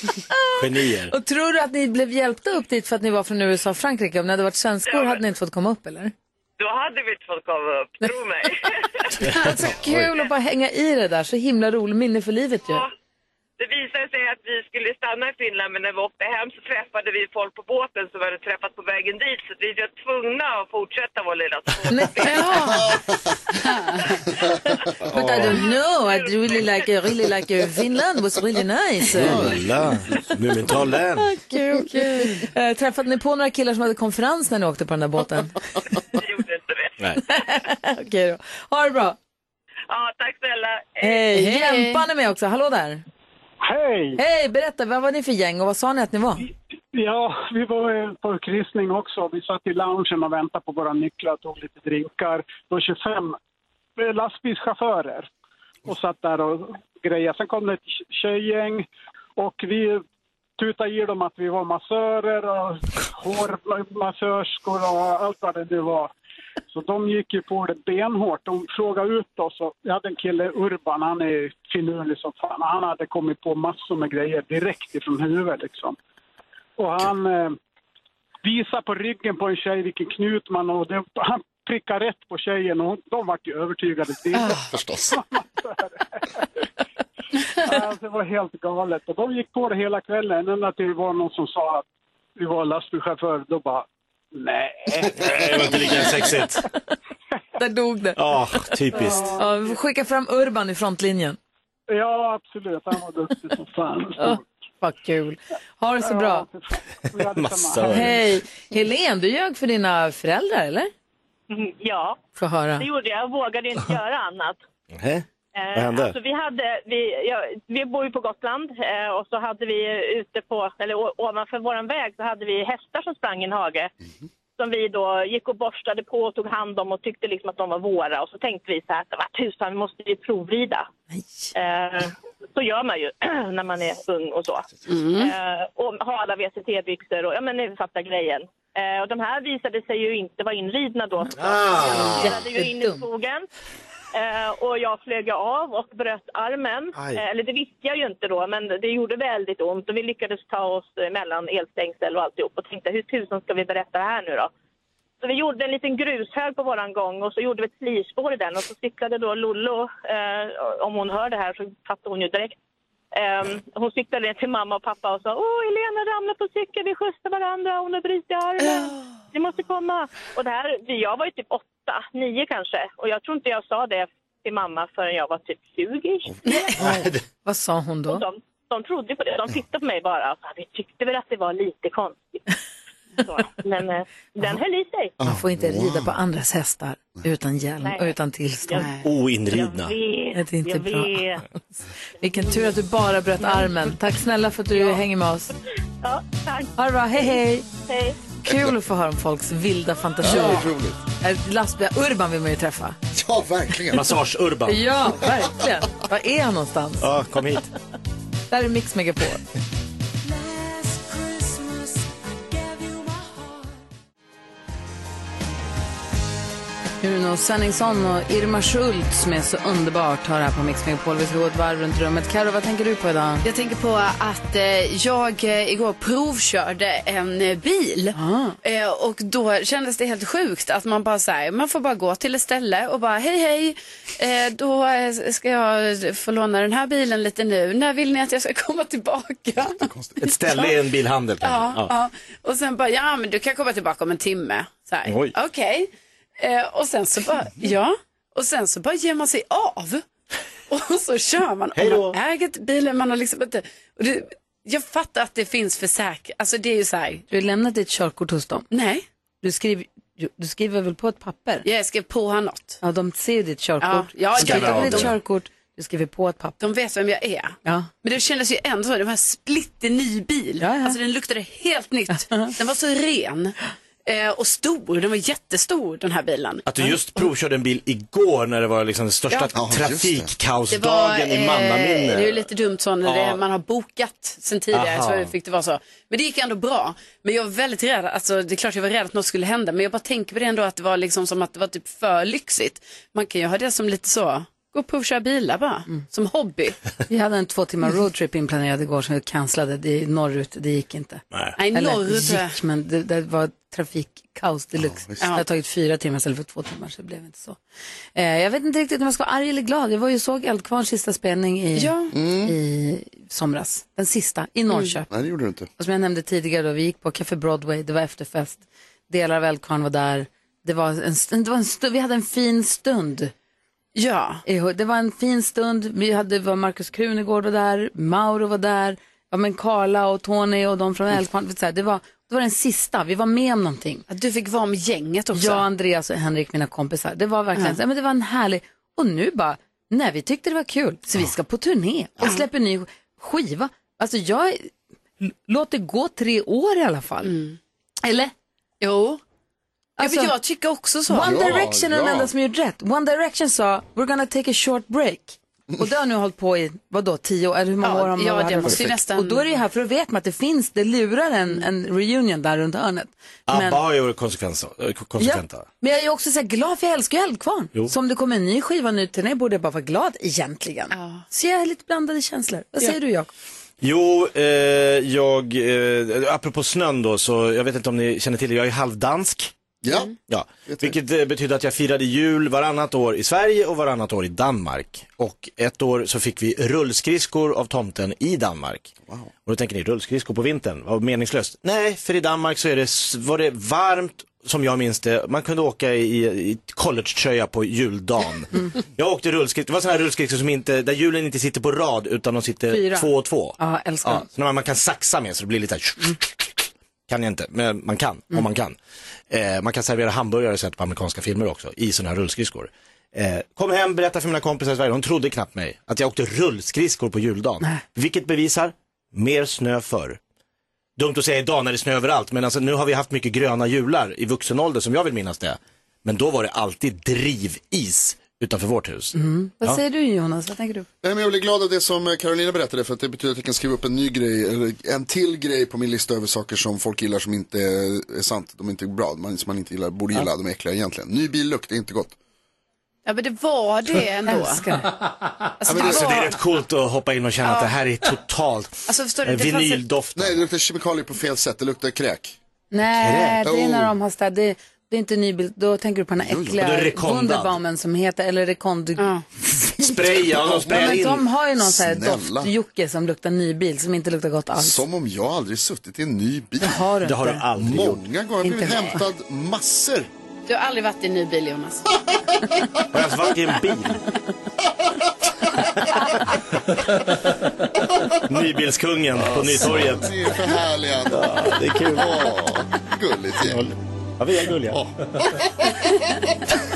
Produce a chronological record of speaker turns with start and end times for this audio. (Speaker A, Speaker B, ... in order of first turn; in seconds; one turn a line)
Speaker A: 0.3-6.1
Speaker B: 0.6-1.1
Speaker C: 4.9-5.2
Speaker C: 6.6-9.4
Speaker A: 9.3-12.9
Speaker B: 9.3-10.0
Speaker C: 12.7-12.9
Speaker C: 13.6-22.5
Speaker A: 21.9-22.7
Speaker D: 22.2-23.0
Speaker E: 22.7-23.0
Speaker D: 23.6-24.2
Speaker A: 25.1-29.6
Speaker C: 25.6-26.2
Speaker E: 29.2-29.6
Speaker B: 29.2-31.3
Speaker A: 31.2-35.6
Speaker D: 31.6-32.4
Speaker C: 36.1-37.0
Speaker A: 37.2-39.2
Speaker C: 39.9-41.2
Speaker A: 41.0-43.0
Speaker D: 41.3-42.0
Speaker F: 43.6-44.2
Speaker A: 44.2-46.5
Speaker F: 46.5-53.4
Speaker F: 54.0-55.3
Speaker F: 55.9-58.9
Speaker F: 59.4-60.0
Speaker F: 60.6-66.1
Speaker F: 66.7-76.0
Speaker F: 76.8-77.6
Speaker F: 78.4-86.2
Speaker E: 84.7-85.2
Speaker F: 87.6-91.9
Speaker F: 92.4-96.5
Speaker B: 95.0-96.7
Speaker A: 97.6-101.4
Speaker B: 98.2-99.4
Speaker F: 99.0-99.7
Speaker F: 101.9-104.5
Speaker A: 104.2-106.5
Speaker F: 106.0-108.2
Speaker B: 107.3-108.2
Speaker A: 107.9-110.9
Speaker G: 111.5-112.2
Speaker A: 112.4-112.9
Speaker G: 112.8-114.6
Speaker B: 114.9-116.2
Speaker G: 115.6-123.9
Speaker G: 124.6-130.9
Speaker A: 131.1-131.5
Speaker G: 131.5-143.5
Speaker D: 134.9-135.3
Speaker B: 141.3-142.4
Speaker A: 141.9-143.0
Speaker G: 144.1-154.5
Speaker B: 146.9-147.2
Speaker G: 155.2-162.6
Speaker G: 163.1-176.3
Speaker A: 176.5-178.2
Speaker B: 176.8-177.2
Speaker G: 178.1-182.5
Speaker G: 183.2-185.2
Speaker E: 185.2-186.1
Speaker A: 185.2-188.9
Speaker G: 187.8-188.1
Speaker D: 188.7-189.1
Speaker B: 189.0-190.0
Speaker G: 189.5-191.5
Speaker A: 190.3-191.2
Speaker A: 192.2-195.5
Speaker G: 194.8-195.0
Speaker G: 196.0-196.7
Speaker A: 196.8-197.7
Speaker G: 197.9-198.2
Speaker A: 198.4-200.7
Speaker E: 198.5-198.7
Speaker E: 200.2-201.0
Speaker A: 201.2-203.0
Speaker E: 203.1-204.1
Speaker B: 203.9-204.9
Speaker A: 204.7-207.1
Speaker B: 207.0-207.7
Speaker A: 208.5-209.4
Speaker A: 217.0-223.4
Speaker D: 223.4-239.8
Speaker A: 228.2-228.6
Speaker E: 239.6-240.3
Speaker B: 240.2-241.9
Speaker D: 240.5-240.8
Speaker D: 241.4-250.1
Speaker B: 245.1-245.3
Speaker D: 250.7-257.2
Speaker B: 251.8-252.2
Speaker A: 257.3-258.7
Speaker D: 258.7-259.1
Speaker A: 259.4-261.6
Speaker D: 261.6-262.8
Speaker A: 262.8-266.6
Speaker D: 263.8-265.1
Speaker B: 264.4-265.2
Speaker D: 266.6-276.8
Speaker A: 270.6-271.0
Speaker B: 276.7-282.5
Speaker E: 279.6-280.3
Speaker D: 280.7-296.8
Speaker B: 283.0-283.4
Speaker B: 284.7-285.3
Speaker A: 297.1-307.6
Speaker B: 301.3-301.6
Speaker D: 301.6-302.6
Speaker E: 304.8-305.2
Speaker A: 308.1-311.9
Speaker D: 311.8-312.1
Speaker E: 312.1-312.6
Speaker A: 312.4-315.1
Speaker E: 315.1-315.7
Speaker A: 315.8-323.3
Speaker D: 323.9-324.4
Speaker A: 324.4-334.1
Speaker D: 334.1-335.6
Speaker A: 335.3-347.4
Speaker D: 347.2-347.6
Speaker A: 348.0-348.3
Speaker D: 348.8-349.2
Speaker A: 350.0-350.4
Speaker D: 350.0-351.6
Speaker A: 351.1-363.8
Speaker E: 351.2-352.3
Speaker D: 357.8-359.5
Speaker B: 363.5-365.7
Speaker A: 365.2-373.3
Speaker D: 370.9-371.2
Speaker B: 373.8-379.5
Speaker E: 379.8-380.1
Speaker B: 380.3-388.9
Speaker E: 380.7-381.0
Speaker B: 389.4-408.8
Speaker A: 402.7-404.3
Speaker B: 409.3-420.2
Speaker B: 421.0-429.8
Speaker A: 429.1-430.9
Speaker E: 431.0-442.2
Speaker D: 443.1-444.7
Speaker A: 444.3-444.9
Speaker D: 445.6-446.4
Speaker E: 445.7-446.2
Speaker B: 445.7-448.7
Speaker D: 447.4-447.7
Speaker D: 448.9-449.8
Speaker B: 449.2-450.4
Speaker E: 450.2-452.4
Speaker A: 452.7-459.6
Speaker B: 453.0-453.4
Speaker E: 453.4-453.9
Speaker E: 456.2-456.6
Speaker B: 456.6-457.6
Speaker D: 459.0-459.2
Speaker B: 459.8-461.2
Speaker E: 460.1-462.5
Speaker A: 460.6-464.8
Speaker E: 464.6-466.9
Speaker A: 466.6-467.4
Speaker B: 467.0-468.0
Speaker E: 467.6-470.1
Speaker A: 468.4-469.0
Speaker D: 470.5-471.9
Speaker B: 472.9-474.0
Speaker B: 476.0-476.4
Speaker B: 478.2-480.2
Speaker E: 479.2-483.7
Speaker B: 481.1-482.3
Speaker B: 483.4-484.8
Speaker E: 484.6-485.8